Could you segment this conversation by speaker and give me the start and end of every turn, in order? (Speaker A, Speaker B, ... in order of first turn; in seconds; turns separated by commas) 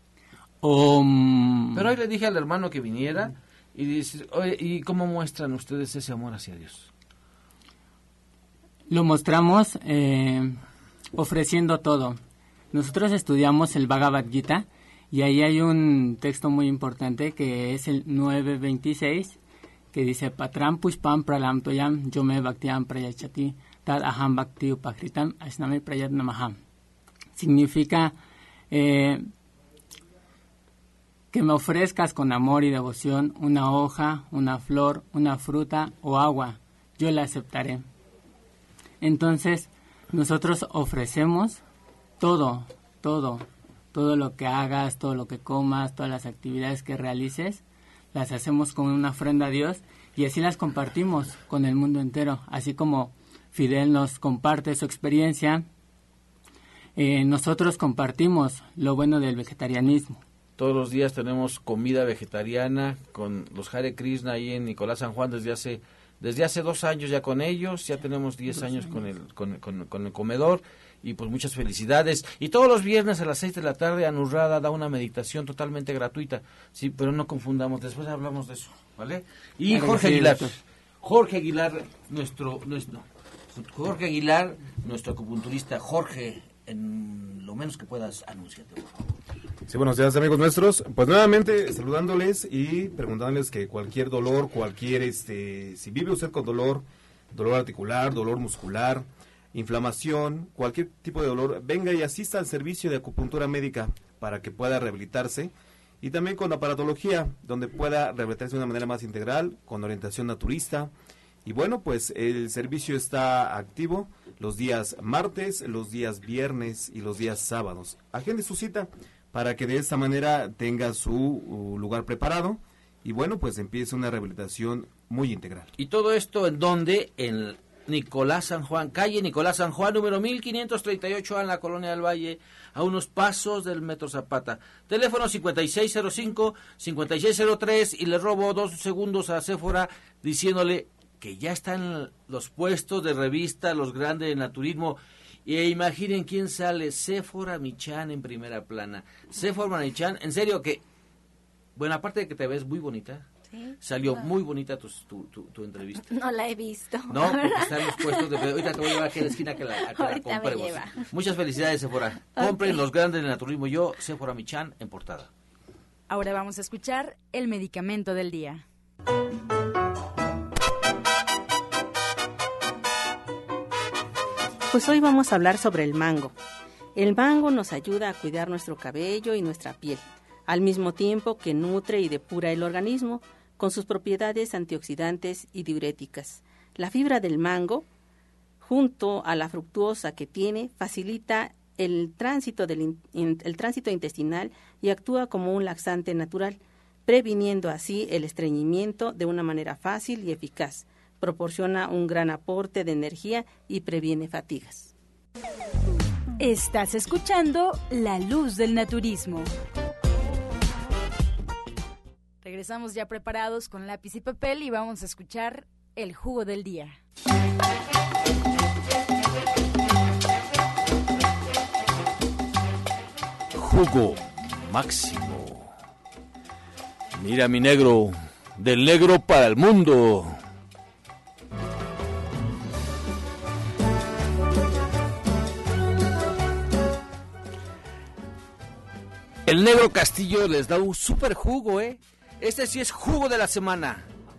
Speaker A: 0.6-1.9, Speaker B: 1.7-6.9, Speaker A: 8.9-10.6, Speaker A: 11.1-12.2, Speaker A: 12.7-19.4, Speaker A: 19.9-26.6, Speaker A: 27.4-28.1, Speaker A: 28.7-29.3, Speaker A: 31.3-37.9, Speaker A: 39.0-41.6, Speaker A: 42.2-47.6, Speaker A: 48.1-55.6, Speaker A: 57.0-60.2, Speaker B: 60.6-89.1, Speaker A: 79.7-80.6, Speaker C: 89.7-110.9, Speaker C: 111.4-125.7, Speaker B: 125.8-150.8, Speaker B: 151.8-153.2, Speaker D: 153.5-154.2, Speaker B: 153.8-156.1, Speaker D: 156.1-161.1, Speaker B: 157.1-165.3, Speaker D: 162.3-162.8, Speaker E: 166.1-168.6, Speaker F: 174.7-176.3, Speaker F: 176.9-187.9, Speaker F: 188.6-204.9, Speaker E: 206.4-209.5, Speaker E: 212.4-217.0, Speaker B: 223.5-225.7, Speaker B: 227.1-230.3, Speaker B: 239.4-244.0